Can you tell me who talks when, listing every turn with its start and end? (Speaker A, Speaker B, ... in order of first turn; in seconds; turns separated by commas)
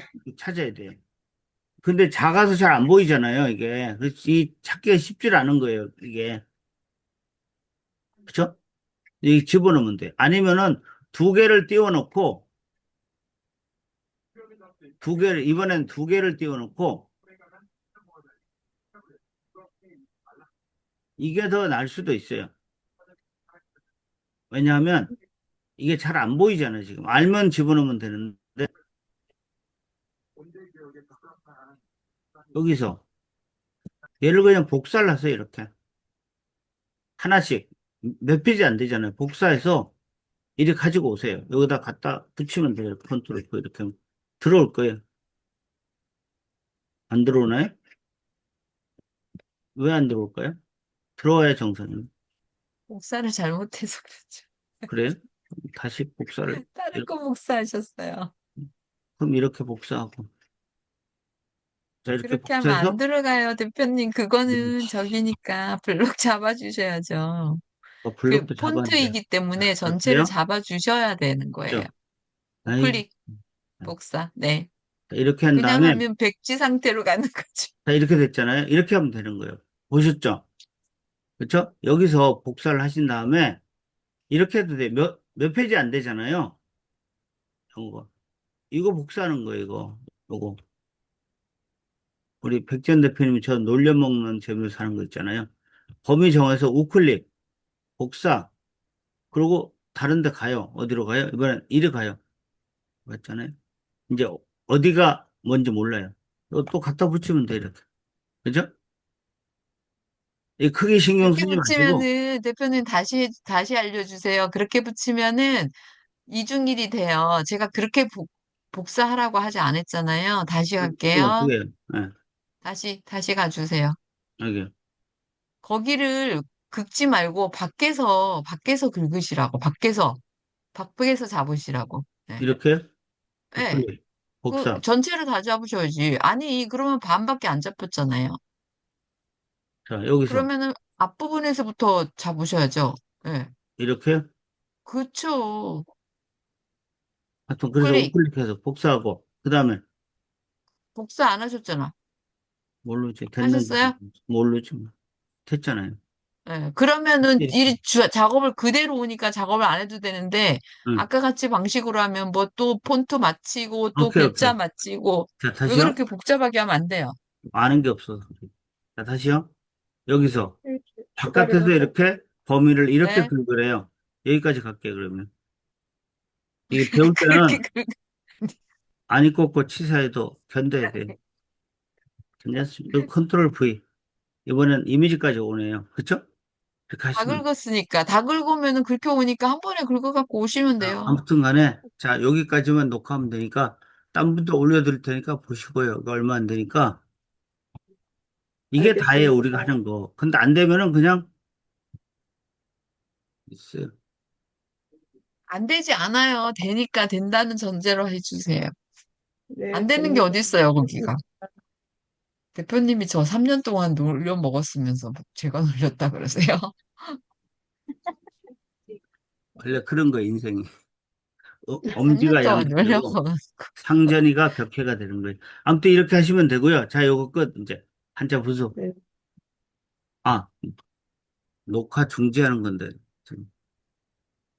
Speaker A: 0.2-1.0, Speaker A: 1.8-6.4, Speaker A: 8.3-8.5, Speaker A: 9.2-12.5, Speaker A: 15.0-17.1, Speaker A: 21.2-22.5, Speaker A: 24.5-25.1, Speaker A: 25.8-28.7, Speaker A: 32.5-33.0, Speaker A: 34.2-35.7, Speaker A: 37.2-39.9, Speaker A: 40.6-45.0, Speaker A: 47.1-47.7, Speaker A: 49.8-50.6, Speaker A: 51.2-52.1, Speaker B: 52.9-54.9, Speaker A: 54.9-57.1, Speaker B: 56.5-58.3, Speaker A: 59.2-60.3, Speaker A: 62.0-63.0, Speaker B: 62.2-67.6, Speaker A: 64.5-64.9, Speaker A: 68.0-70.3, Speaker B: 68.3-71.9, Speaker A: 72.7-73.0, Speaker B: 72.8-73.1, Speaker B: 73.8-74.7, Speaker A: 75.1-76.0, Speaker B: 75.5-77.7, Speaker A: 77.9-80.5, Speaker A: 81.4-83.6, Speaker A: 84.3-86.6, Speaker A: 87.7-88.1, Speaker A: 88.7-90.6, Speaker A: 92.4-95.5, Speaker A: 96.0-97.3, Speaker A: 98.0-98.5, Speaker A: 99.3-102.2, Speaker A: 103.1-103.5, Speaker A: 104.1-107.8, Speaker A: 110.6-112.1, Speaker B: 111.2-115.8, Speaker B: 116.3-121.5, Speaker A: 120.8-122.1, Speaker B: 122.6-124.0, Speaker A: 124.4-124.7, Speaker B: 125.6-130.2, Speaker B: 130.7-132.5, Speaker A: 132.4-132.8, Speaker B: 133.5-133.9, Speaker A: 133.6-134.8, Speaker B: 134.5-138.4, Speaker A: 139.9-140.5, Speaker B: 140.2-143.5, Speaker A: 143.8-144.3, Speaker B: 144.9-145.9, Speaker A: 147.5-149.8, Speaker B: 147.8-148.2, Speaker B: 150.9-151.9, Speaker A: 152.8-154.9, Speaker B: 153.4-154.0, Speaker A: 155.5-156.0, Speaker B: 156.5-167.2, Speaker A: 157.4-157.6, Speaker A: 164.0-164.6, Speaker A: 165.4-166.0, Speaker A: 167.5-169.5, Speaker A: 170.1-170.6, Speaker C: 170.7-171.9, Speaker A: 171.2-175.3, Speaker B: 173.0-173.3, Speaker B: 176.7-178.6, Speaker A: 176.7-177.6, Speaker A: 179.1-181.1, Speaker B: 180.8-181.1, Speaker A: 182.4-183.8, Speaker A: 184.5-186.2, Speaker A: 186.9-187.4, Speaker B: 187.2-191.2, Speaker A: 190.8-197.0, Speaker A: 198.7-201.3, Speaker C: 198.8-199.7, Speaker A: 203.5-203.9, Speaker B: 205.5-208.7, Speaker C: 209.5-211.1, Speaker B: 209.7-211.2, Speaker B: 212.6-217.2, Speaker A: 219.6-220.7, Speaker A: 221.6-223.2, Speaker B: 222.0-224.2, Speaker A: 223.8-228.8, Speaker A: 230.2-230.7, Speaker A: 231.7-233.5